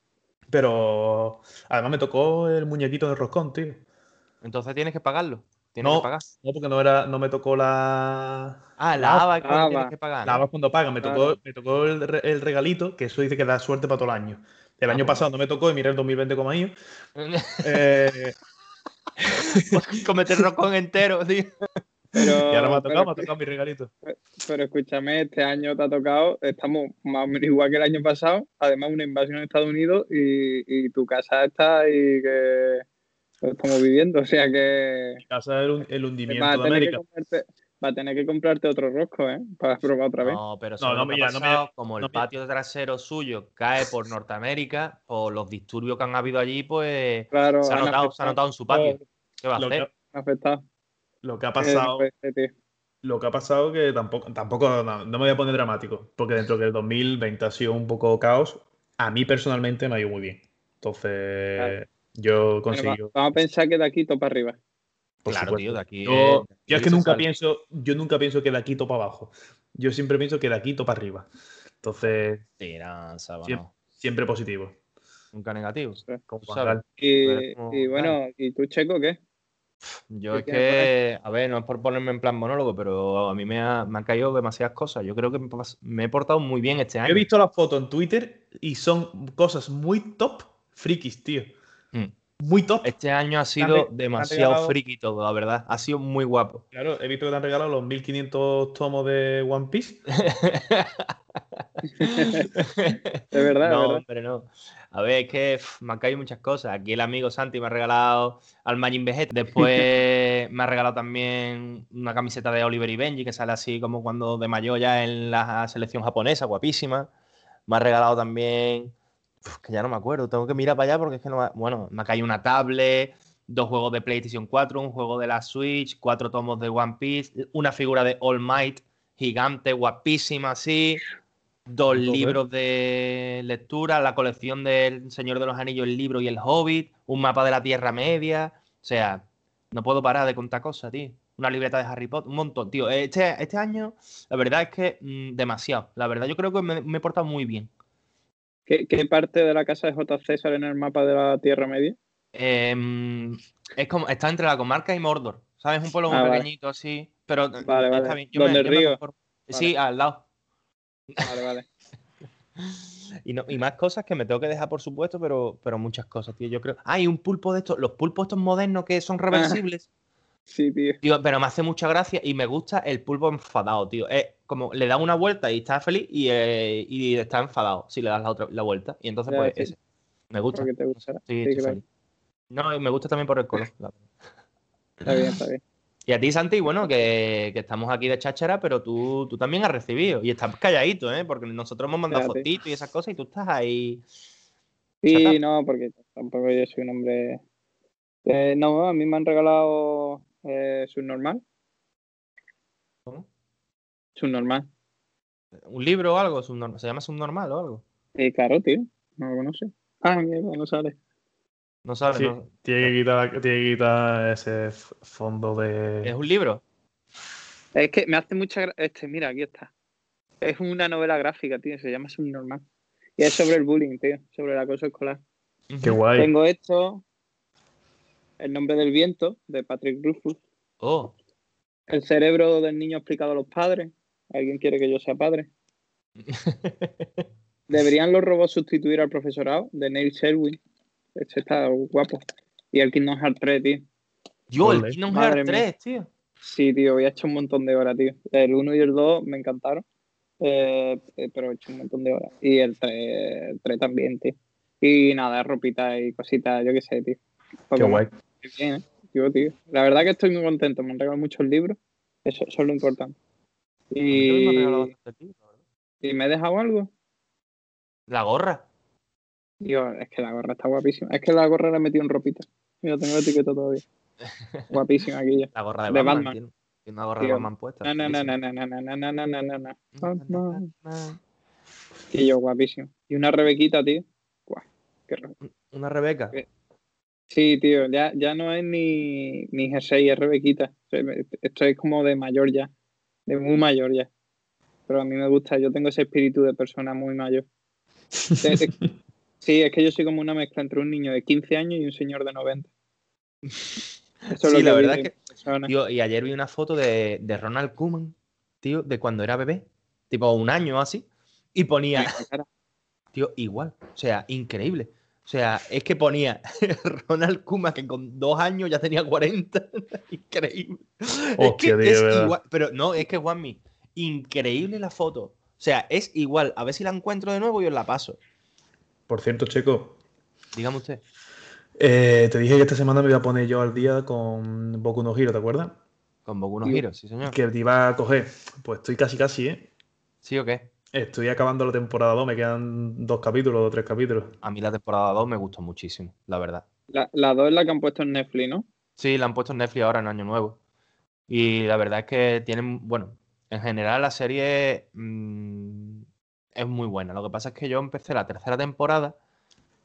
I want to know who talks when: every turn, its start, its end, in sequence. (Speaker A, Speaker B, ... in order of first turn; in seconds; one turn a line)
Speaker A: 0.5-3.8
Speaker B: 4.4-6.3
Speaker A: 5.8-9.2
Speaker B: 8.8-10.4
Speaker C: 9.4-9.9
Speaker A: 10.2-16.7
Speaker C: 11.0-11.4
Speaker B: 14.9-15.2
Speaker B: 17.2-17.8
Speaker A: 17.6-18.4
Speaker B: 19.5-21.5
Speaker C: 22.1-23.3
Speaker A: 22.5-23.9
Speaker C: 24.1-32.8
Speaker C: 33.4-35.2
Speaker A: 35.2-37.0
Speaker C: 36.3-40.4
Speaker B: 40.2-49.9
Speaker A: 40.8-42.2
Speaker C: 47.3-48.4
Speaker A: 48.7-49.0
Speaker A: 49.6-49.9
Speaker C: 50.1-50.6
Speaker A: 51.2-52.1
Speaker C: 51.6-52.5
Speaker A: 53.0-63.1
Speaker C: 62.7-64.6
Speaker A: 65.2-71.3
Speaker B: 65.3-67.3
Speaker A: 71.8-72.4
Speaker B: 72.6-73.7
Speaker A: 73.4-74.8
Speaker B: 75.3-78.2
Speaker A: 76.3-76.8
Speaker C: 77.0-79.2
Speaker B: 80.1-87.2
Speaker C: 80.3-80.9
Speaker A: 87.0-91.5
Speaker A: 92.4-93.0
Speaker B: 92.8-96.6
Speaker A: 93.6-94.8
Speaker A: 96.7-100.0
Speaker B: 100.1-117.1
Speaker C: 102.0-102.5
Speaker C: 103.3-104.0
Speaker B: 117.7-118.9
Speaker B: 119.5-131.0
Speaker B: 131.7-147.7
Speaker A: 131.9-132.4
Speaker C: 148.7-152.0
Speaker B: 152.3-160.2
Speaker C: 156.1-156.5
Speaker C: 157.6-159.0
Speaker C: 161.2-161.7
Speaker B: 162.6-169.9
Speaker C: 169.3-169.6
Speaker C: 170.5-171.0
Speaker B: 171.0-179.8
Speaker C: 179.3-179.7
Speaker B: 180.3-181.8
Speaker C: 180.5-181.8
Speaker B: 182.5-184.1
Speaker B: 185.0-185.4
Speaker C: 185.1-185.6
Speaker B: 186.1-194.1
Speaker C: 192.1-192.5
Speaker C: 195.0-197.4
Speaker B: 195.1-195.4
Speaker C: 198.2-201.4
Speaker C: 204.2-204.7
Speaker B: 205.6-207.8
Speaker C: 208.2-210.9
Speaker B: 211.8-212.9
Speaker A: 212.1-216.1
Speaker B: 216.0-216.6
Speaker C: 217.8-219.7
Speaker C: 220.4-222.6
Speaker C: 223.2-225.2
Speaker B: 225.7-226.0
Speaker A: 225.8-226.3
Speaker C: 226.2-227.0
Speaker C: 228.4-230.4
Speaker B: 230.8-231.1
Speaker C: 231.9-235.5
Speaker B: 236.2-237.2
Speaker C: 237.7-240.6
Speaker C: 241.1-242.2
Speaker C: 242.7-243.9
Speaker B: 244.5-246.1
Speaker A: 244.6-245.0
Speaker C: 245.1-245.6
Speaker C: 246.4-249.8
Speaker C: 250.4-257.2
Speaker C: 257.7-263.1
Speaker A: 257.8-258.1
Speaker C: 263.9-264.9
Speaker B: 264.1-265.5
Speaker C: 266.0-266.9
Speaker B: 268.1-268.6
Speaker C: 269.6-273.8
Speaker B: 274.2-274.7
Speaker C: 274.7-276.4
Speaker B: 275.5-278.4
Speaker C: 277.2-280.7
Speaker B: 279.9-281.2
Speaker C: 282.1-285.4
Speaker B: 285.4-286.4
Speaker C: 287.3-292.7
Speaker C: 293.3-294.1
Speaker C: 294.9-297.4
Speaker A: 298.1-298.6
Speaker C: 298.4-298.7
Speaker C: 299.4-302.7
Speaker B: 303.5-303.8
Speaker C: 304.3-305.7
Speaker B: 304.4-312.2
Speaker C: 311.9-312.5
Speaker B: 313.1-328.2
Speaker A: 321.4-322.4
Speaker A: 329.1-330.0
Speaker B: 330.5-331.0
Speaker A: 331.8-335.8
Speaker B: 336.2-337.4
Speaker A: 337.2-339.7
Speaker B: 340.2-340.7
Speaker A: 340.9-344.4
Speaker B: 344.4-346.6
Speaker C: 346.9-348.6
Speaker B: 349.0-350.6
Speaker B: 351.3-356.1
Speaker B: 356.6-359.2